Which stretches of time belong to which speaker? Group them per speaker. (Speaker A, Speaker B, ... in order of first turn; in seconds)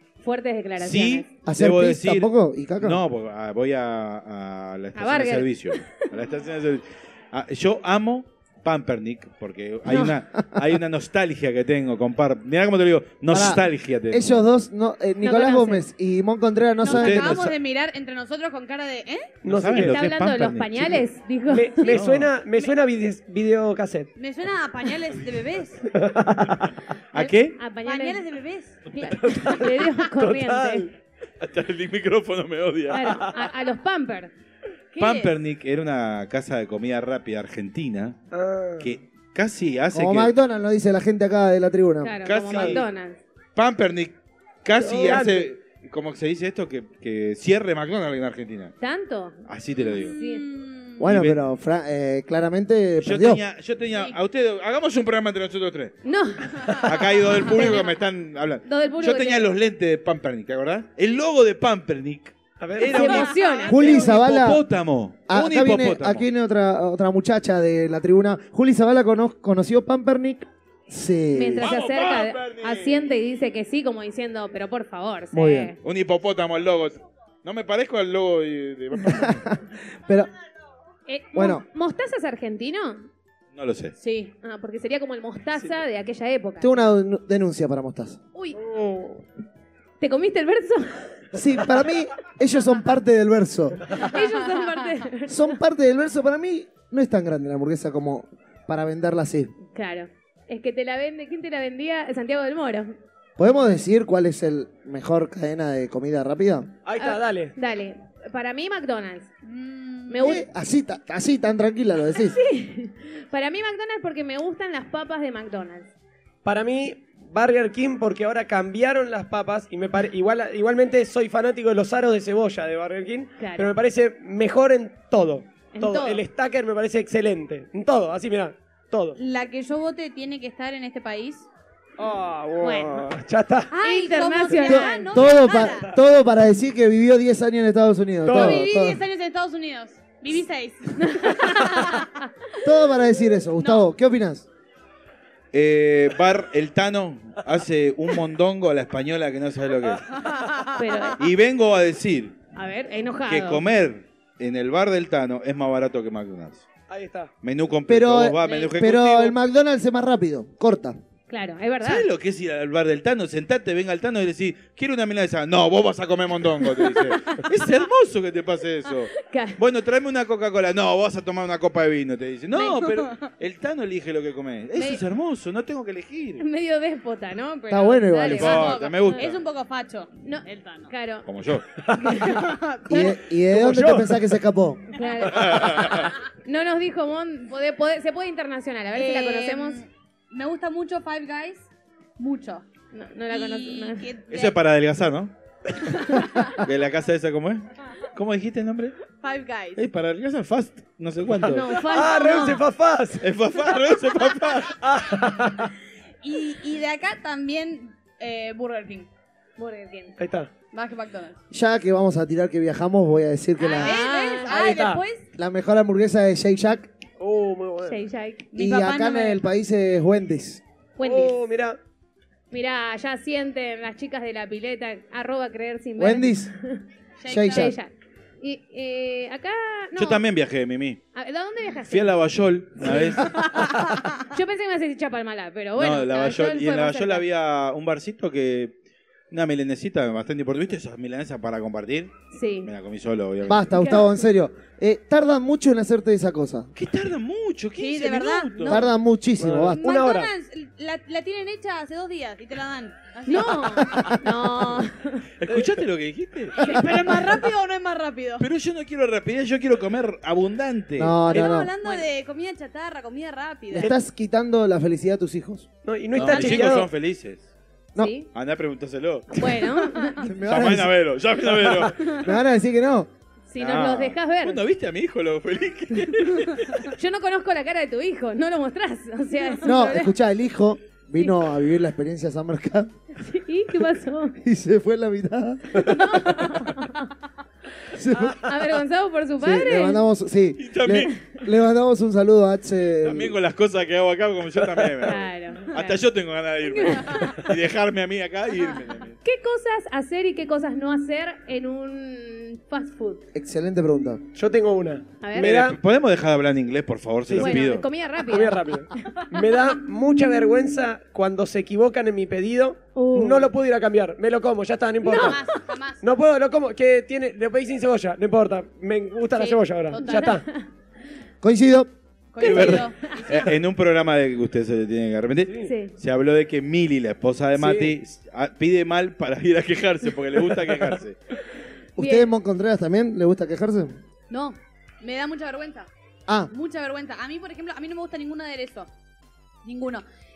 Speaker A: 0.2-1.3, 4.9-5.9, 15.2-15.8, 19.8-22.0, 27.1-28.2, 28.9-30.9, 32.9-34.3, 42.0-43.2, 48.8-49.4, 50.0-50.4, 56.0-58.0, 58.6-59.5, 62.9-63.9, 71.3-75.8, 81.1-83.0, 84.4-86.9, 90.0-91.1, 93.9-95.6, 99.7-102.9, 107.0-109.3, 110.1-110.5, 112.1-115.9, 123.4-123.7, 125.7-126.2, 132.6-133.1, 133.8-135.1, 141.0-142.3, 150.7-151.2, 152.5-153.6, 161.3-162.1, 166.7-167.4, 169.1-169.6, 174.8-175.0, 176.4-179.2, 180.2-181.3, 181.9-183.1, 184.9-189.8, 192.9-194.0, 201.4-202.6, 209.6-210.2, 213.8-214.5, 217.8-218.5, 221.0-221.4, 222.5-226.8, 227.5-230.2, 231.1-232.2, 232.8-233.3, 234.3-237.2, 242.3-242.7, 243.7-244.2, 253.3-255.2, 268.0-268.3, 269.3-270.3, 273.5-274.6, 276.0-280.1, 283.2-284.4, 285.8-287.1, 288.2-290.0, 295.0-296.0, 296.6-297.5, 299.2-303.2, 305.2-305.5, 307.4-309.2, 312.9-313.5, 315.0-315.6, 319.9-320.7, 322.4-323.4, 325.6-325.9, 332.0-332.3
Speaker B: 0.8-14.4, 16.9-17.5, 19.4-21.0, 21.9-22.3, 27.1-27.6, 31.4-33.2, 35.0-38.1, 38.8-40.3, 42.2-42.9, 43.5-48.7, 49.5-50.1, 51.0-51.4, 53.0-55.9, 56.8-66.2, 71.6-73.1, 75.8-79.4, 83.5-83.9, 145.5-150.1, 151.2-152.4, 153.3-156.7, 157.4-159.3, 161.8-176.4, 178.3-179.4, 181.2-181.6, 185.3-186.1, 194.3-195.3, 196.5-198.9, 199.8-201.8, 203.2-204.8, 229.9-231.0, 231.9-233.4, 235.8-238.8, 239.3-242.1, 242.6-243.9, 246.8-248.8, 255.4-256.8, 258.4-261.2, 266.1-267.5, 268.3-269.4, 270.4-272.2, 273.6-276.9, 290.6-291.2, 293.0-299.2, 305.4-307.9, 322.4-331.2
Speaker C: 1.4-3.0, 9.9-10.7, 13.3-17.5, 39.9-42.1, 51.0-53.4, 63.7-64.6, 65.3-71.7, 75.3-75.7, 79.0-80.3, 81.3-81.6, 86.6-88.2, 91.3-93.9, 95.3-99.5, 103.4-106.7, 110.2-112.4, 134.5-139.0, 142.6-144.4, 157.9-161.0, 177.7-178.7, 182.9-184.8, 211.5-214.0, 215.4-216.9, 218.5-220.6, 226.0-226.5, 227.3-227.8, 243.4-246.7, 248.7-249.8, 253.8-254.3, 261.0-261.7, 263.7-265.7, 270.2-270.9, 272.1-273.1, 279.6-282.9, 284.4-286.5, 287.9-288.5, 289.4-293.4, 303.3-304.2, 321.4-321.9, 332.0-334.0
Speaker D: 16.8-19.3, 24.1-25.9, 27.8-28.8, 34.9-35.3, 49.9-51.0, 62.9-64.0, 84.0-84.3, 109.4-110.2, 129.2-131.5, 133.7-135.9, 138.3-142.1, 143.6-143.9, 150.1-151.1, 172.8-173.3, 178.4-180.9, 182.3-183.1, 188.9-192.7, 193.3-194.6, 199.1-199.8, 206.2-209.1, 210.7-211.4, 213.6-215.2, 218.5-219.4, 227.2-227.7, 233.6-234.0, 247.8-248.9, 249.8-254.0, 256.6-258.5, 261.3-263.9, 266.1-266.9, 315.0-316.0, 319.3-320.4, 322.3-323.5, 334.3-335.9, 336.5-338.9, 339.6-340.0
Speaker E: 19.4-20.0, 21.5-24.1, 25.9-26.7, 29.0-30.9, 38.3-39.0, 42.5-42.8, 44.8-45.5, 62.6-63.3, 88.6-89.2, 106.8-107.5, 116.4-129.2, 132.0-133.7, 138.2-138.6, 156.9-157.3, 181.8-182.4, 183.5-184.3, 201.9-203.2, 204.8-205.7, 210.2-210.5, 214.5-215.0, 217.2-218.0, 221.0-221.8, 249.4-250.3, 255.5-255.8, 265.8-266.9, 304.3-305.8, 307.3-307.7, 308.2-315.4, 316.0-320.4, 325.5-325.7, 327.6-327.9